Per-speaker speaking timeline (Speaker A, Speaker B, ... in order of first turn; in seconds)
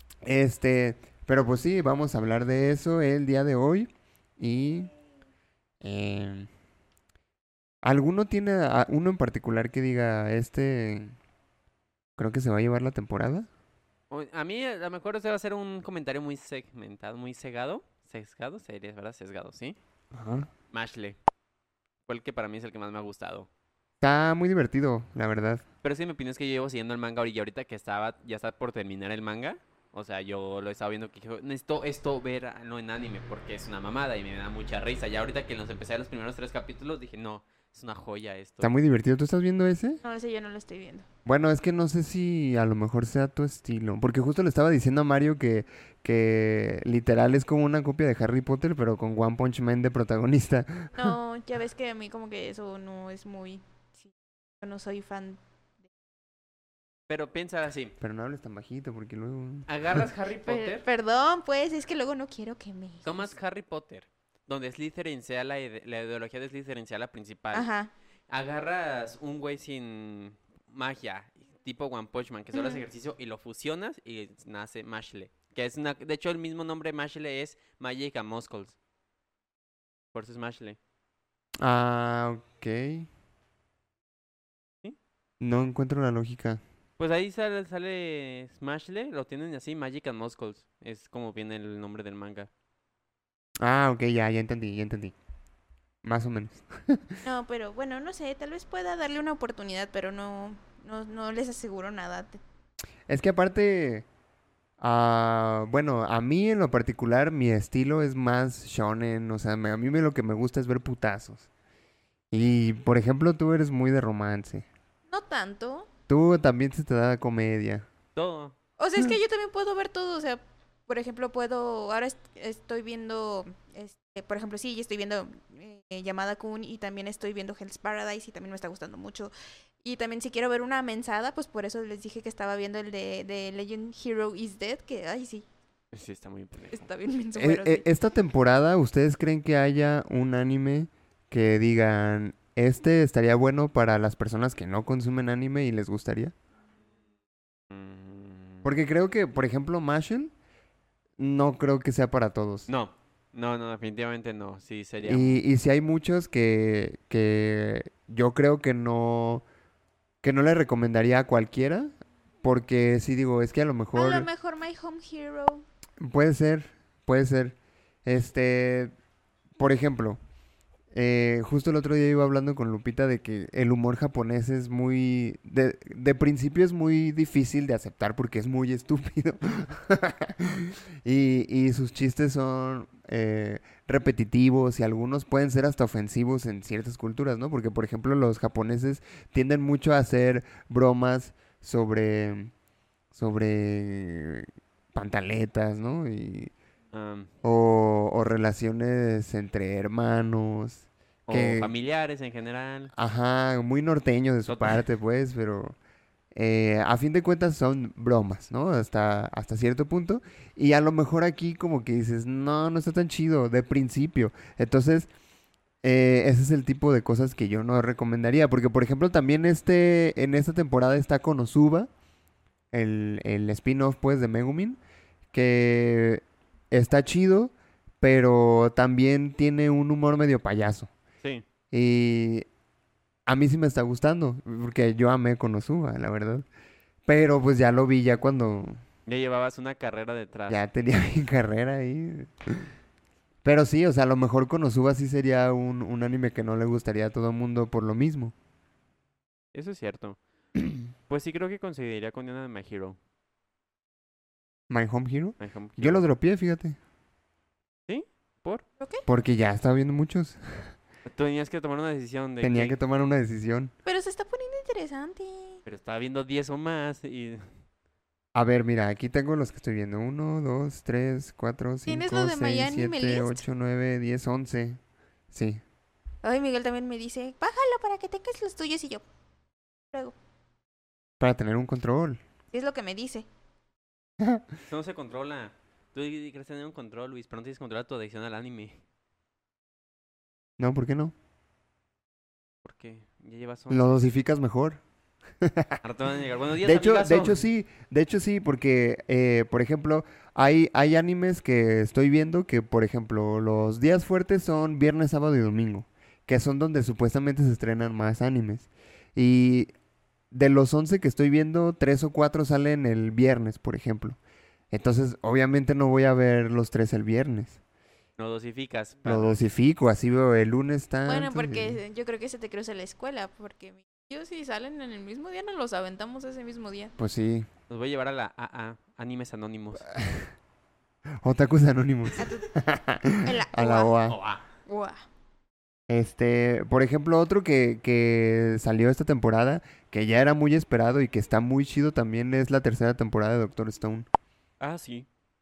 Speaker A: 0.2-4.9, 5.8-6.5, 7.8-11.1, 12.2-13.5, 20.1-20.5, 24.0-25.6, 38.6-40.0, 41.2-51.1, 58.0-60.1, 81.6-83.1, 85.4-86.6, 93.6-95.1, 96.0-97.2, 103.1-104.0, 104.8-111.5, 112.3-114.7, 116.1-117.8, 137.3-146.3, 148.6-150.3, 151.2-152.7, 155.0-159.4, 160.2-164.3, 166.0-168.9, 169.6-170.2, 170.9-192.5, 193.1-196.5, 197.4-201.7, 202.9-205.8, 206.3-215.1, 215.8-221.9, 222.7-224.8, 225.3-230.9, 231.7-232.5, 233.2-236.4, 237.1-238.8, 240.5-242.7, 243.4-248.3, 254.7-256.8, 259.1-260.7, 262.4-263.7, 268.3-274.8, 275.3-275.6, 281.2-282.2, 284.2-284.4, 290.6-291.1, 293.7-294.8, 295.4-295.8, 296.6-309.7, 310.3-314.2, 314.7-317.6, 319.1-321.8, 327.0-327.5, 329.9-330.3, 331.2-334.2, 335.9-344.1
Speaker B: 14.1-19.8, 20.7-21.2, 22.1-23.5, 25.8-38.7, 57.1-57.9, 59.7-60.8, 63.0-67.7, 68.3-78.8, 80.1-80.8, 87.0-92.5, 118.2-118.5, 135.9-136.8, 147.7-148.7, 152.7-155.4, 196.9-197.3, 201.3-202.9, 204.5-204.8, 239.1-240.6, 249.5-250.2, 251.1-253.0, 255.4-256.0, 257.9-258.6, 261.1-262.8, 265.6-267.5, 284.7-288.8, 292.6-294.0, 295.8-297.4, 318.2-319.4, 327.7-329.9, 334.1-334.4, 344.6-345.1
Speaker C: 40.0-41.0, 50.9-53.6, 54.6-55.4, 60.5-63.3, 67.5-67.9, 72.5-72.8, 97.2-102.4, 115.1-115.9, 118.8-135.4, 136.7-137.8, 163.9-165.6, 258.8-259.0, 263.8-265.6, 271.9-273.4, 276.2-279.0, 282.5-283.2, 321.1-326.9, 332.2-332.5, 333.2-333.9, 334.7-335.0